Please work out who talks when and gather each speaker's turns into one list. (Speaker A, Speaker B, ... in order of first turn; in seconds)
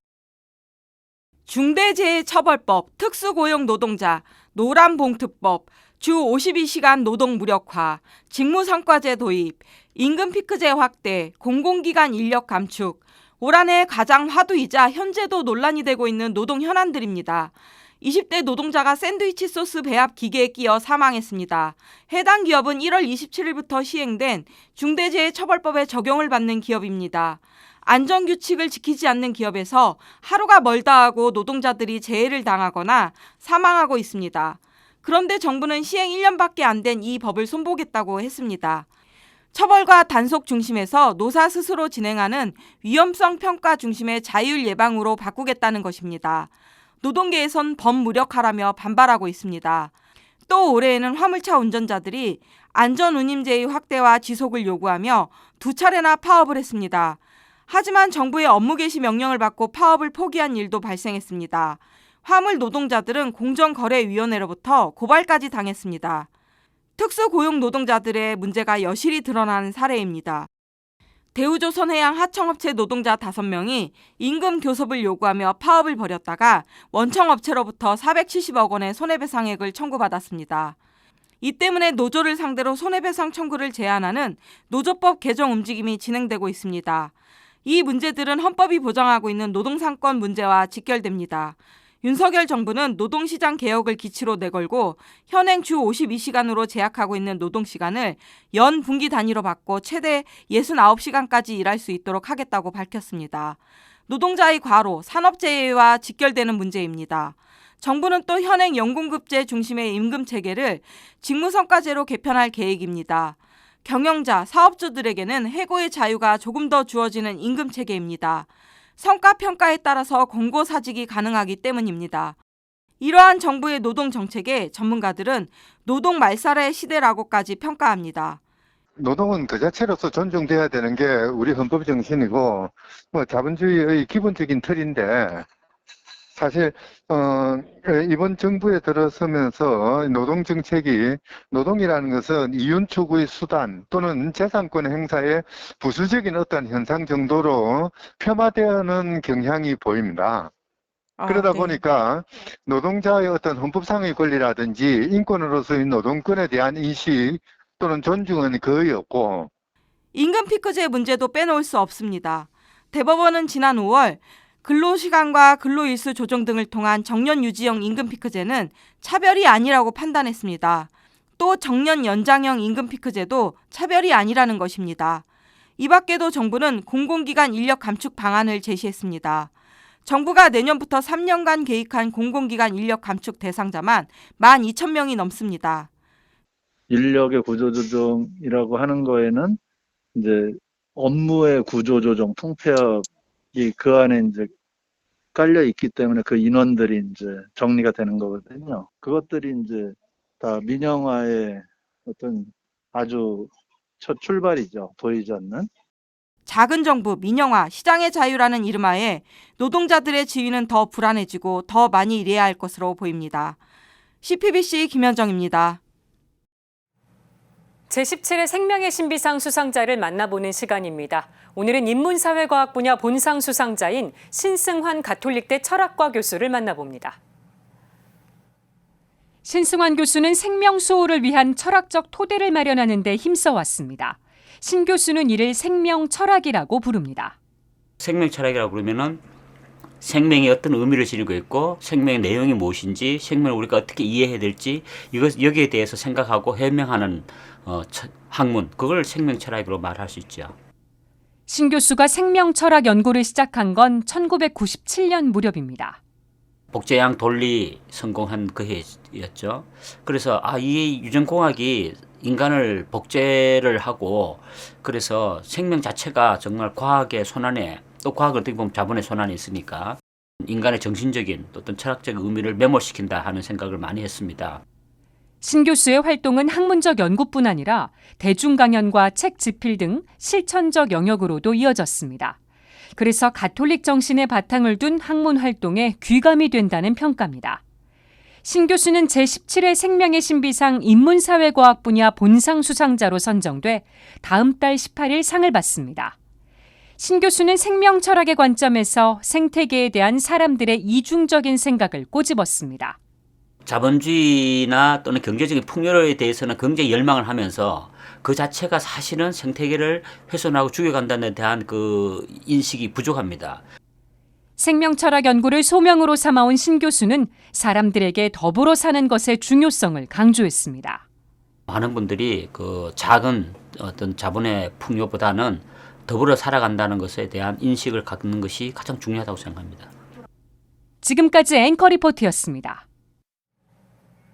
Speaker A: 1.5-38.9, 39.5-46.5, 47.0-49.9, 50.5-66.3, 67.0-70.5, 71.3-80.8, 81.4-87.1, 87.6-118.5, 119.0-122.4, 123.0-128.4, 151.2-151.8, 160.1-175.2, 175.8-179.5, 180.0-185.9, 206.5-213.6, 214.2-215.8
Speaker B: 129.0-135.5, 136.3-150.5, 151.2-159.5
Speaker C: 186.9-189.6, 190.1-194.5, 195.3-205.7
Speaker D: 217.9-227.2, 229.4-237.3, 251.5-256.0, 275.4-282.4, 283.0-287.6, 288.4-296.1, 297.0-303.0, 314.6-321.0, 331.0-332.8
Speaker E: 238.0-239.2, 240.0-250.5, 256.7-274.6, 303.6-313.6, 321.7-329.9